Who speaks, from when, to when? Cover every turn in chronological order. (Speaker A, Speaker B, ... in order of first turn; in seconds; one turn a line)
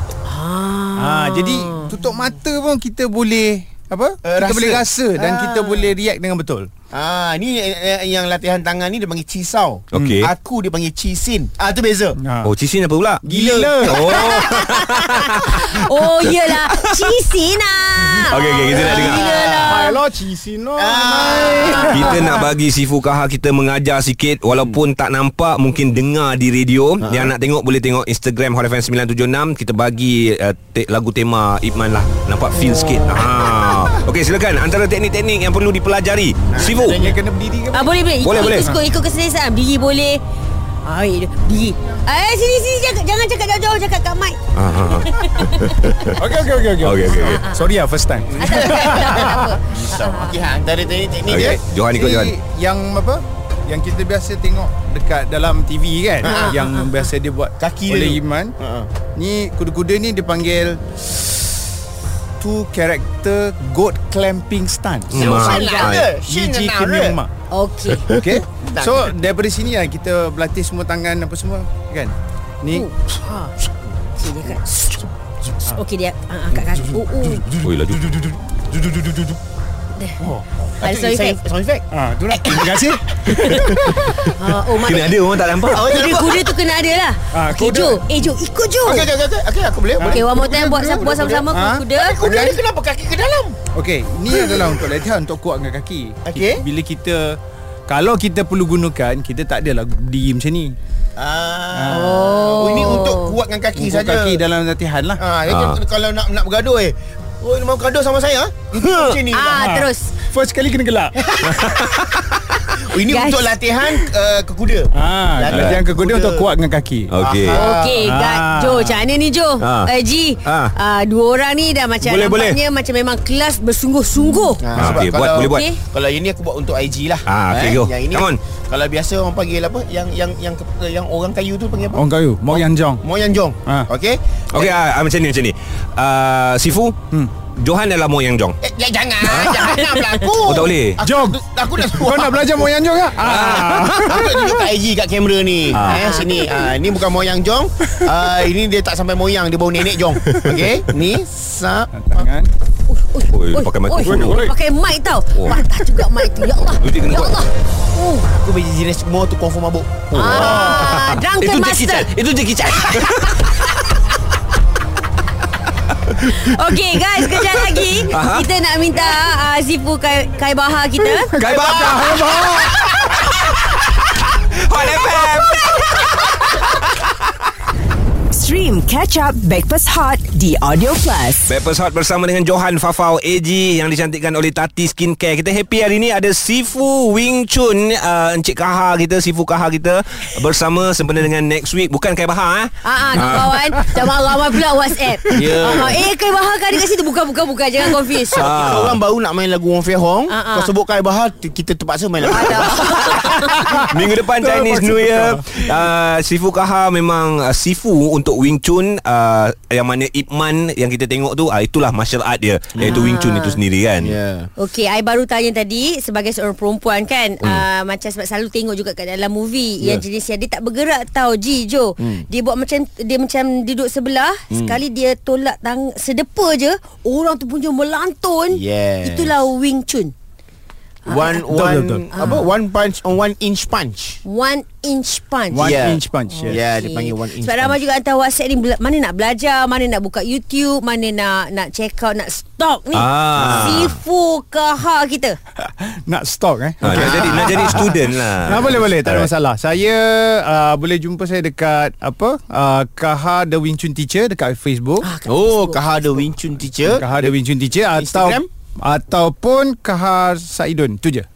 Speaker A: 0.2-1.9
Speaker B: 0.9-6.7
Speaker C: 4.2-5.9
Speaker C: 6.9-12.2
Speaker D: 9.9-10.3
Speaker B: 12.2-12.5
Speaker D: 12.4-13.2
Speaker B: 13.2-14.1
Speaker C: 13.2-14.2
Speaker D: 13.9-15.7
Speaker A: 14.2-20.0
Speaker D: 16.2-17.1
Speaker D: 18.1-19.3
Speaker C: 18.6-19.9
Speaker B: 19.6-22.4
Speaker C: 20.8-22.1
Speaker A: 21.6-21.9
Speaker D: 21.8-37.1
Speaker C: 27.0-27.3
Speaker C: 32.6-33.2
Speaker C: 36.5-37.2
Speaker B: 36.9-38.8
Speaker A: 37.7-40.2
Speaker D: 38.2-38.8
Speaker A: 40.8-44.4
Speaker D: 44.5-46.2
Speaker A: 44.9-45.7
Speaker B: 46.1-49.5
Speaker D: 46.8-47.4
Speaker A: 47.0-47.7
Speaker C: 48.3-51.6
Speaker A: 48.4-50.4
Speaker D: 51.2-52.3
Speaker B: 51.9-58.6
Speaker C: 56.2-56.5
Speaker A: 56.2-56.9
Speaker C: 57.6-58.9
Speaker B: 59.1-61.5
Speaker B: 62.4-65.5
Speaker C: 65.1-67.2
Speaker D: 65.1-66.1
Speaker A: 65.2-66.0
Speaker B: 66.2-67.3
Speaker A: 67.5-68.1
Speaker B: 68.1-72.9
Speaker C: 68.5-69.1
Speaker A: 72.7-73.5
Speaker A: 74.1-75.0
Speaker A: 75.6-77.5
Speaker B: 76.7-79.3
Speaker D: 77.6-78.1
Speaker A: 80.8-81.4
Speaker C: 80.8-83.4
Speaker B: 81.9-84.3
Speaker D: 83.3-85.9
Speaker A: 84.3-85.2
Speaker C: 85.7-86.5
Speaker A: 85.7-89.1
Speaker B: 87.3-88.0
Speaker C: 88.8-93.6
Speaker B: 90.0-92.6
Speaker A: 90.0-92.2
Speaker B: 93.7-100.7
Speaker C: 94.3-94.7
Speaker C: 96.2-96.6
Speaker C: 101.2-104.4
Speaker B: 101.7-102.9
Speaker A: 101.9-103.3
Speaker B: 103.7-105.2
Speaker C: 105.2-109.6
Speaker D: 105.5-105.8
Speaker D: 108.7-109.2
Speaker A: 109.3-110.1
Speaker B: 109.5-111.2
Speaker C: 111.3-111.8
Speaker D: 111.4-112.7
Speaker C: 112.7-116.5
Speaker A: 113.0-113.6
Speaker B: 114.9-119.0
Speaker D: 115.5-115.8
Speaker D: 117.1-117.6
Speaker C: 117.2-118.0
Speaker A: 117.5-125.8
Speaker D: 119.6-119.9
Speaker D: 120.4-120.7
Speaker D: 122.0-122.6
Speaker C: 124.6-134.7
Speaker D: 124.8-125.7
Speaker D: 127.2-128.4
Speaker B: 131.9-133.0
Speaker D: 134.5-137.0
Speaker D: 137.5-138.6
Speaker C: 138.6-142.6
Speaker B: 139.3-139.8
Speaker D: 140.4-141.0
Speaker B: 141.0-144.6
Speaker D: 143.2-144.1
Speaker C: 144.0-152.3
Speaker D: 145.7-146.1
Speaker A: 145.9-146.5
Speaker D: 150.2-150.6
Speaker B: 151.9-152.5
Speaker A: 152.9-158.3
Speaker D: 153.3-154.5
Speaker B: 154.0-154.5
Speaker D: 155.3-155.6
Speaker D: 156.8-157.4
Speaker C: 158.3-160.8
Speaker D: 160.1-163.8
Speaker A: 160.1-162.1
Speaker B: 160.4-160.9
Speaker D: 166.1-166.6
Speaker A: 166.2-171.3
Speaker D: 167.2-168.5
Speaker B: 171.2-172.9
Speaker D: 171.3-173.0
Speaker C: 171.6-173.1
Speaker D: 174.5-176.7
Speaker E: 178.3-181.5
Speaker D: 181.4-193.8
Speaker A: 192.8-198.5
Speaker C: 195.3-196.0
Speaker B: 195.5-195.9
Speaker C: 198.3-202.9
Speaker D: 198.3-199.0
Speaker A: 200.3-200.7
Speaker A: 202.3-203.7
Speaker D: 202.8-214.2
Speaker B: 203.4-205.5
Speaker C: 212.7-213.0
Speaker A: 212.8-213.6
Speaker C: 214.0-214.5
Speaker A: 214.6-230.1
Speaker C: 222.0-222.2
Speaker C: 224.5-224.8
Speaker C: 228.5-229.3
Speaker C: 231.1-234.2
Speaker A: 231.1-231.4
Speaker B: 231.4-232.1
Speaker A: 232.1-232.4
Speaker A: 234.2-245.4
Speaker B: 235.5-236.6
Speaker C: 235.6-237.8
Speaker D: 242.9-243.9
Speaker C: 243.4-243.9
Speaker B: 245.6-255.1
Speaker D: 246.8-249.3
Speaker C: 246.9-247.6
Speaker A: 255.0-255.9
Speaker C: 255.2-257.4
Speaker B: 256.8-261.2
Speaker C: 257.9-258.5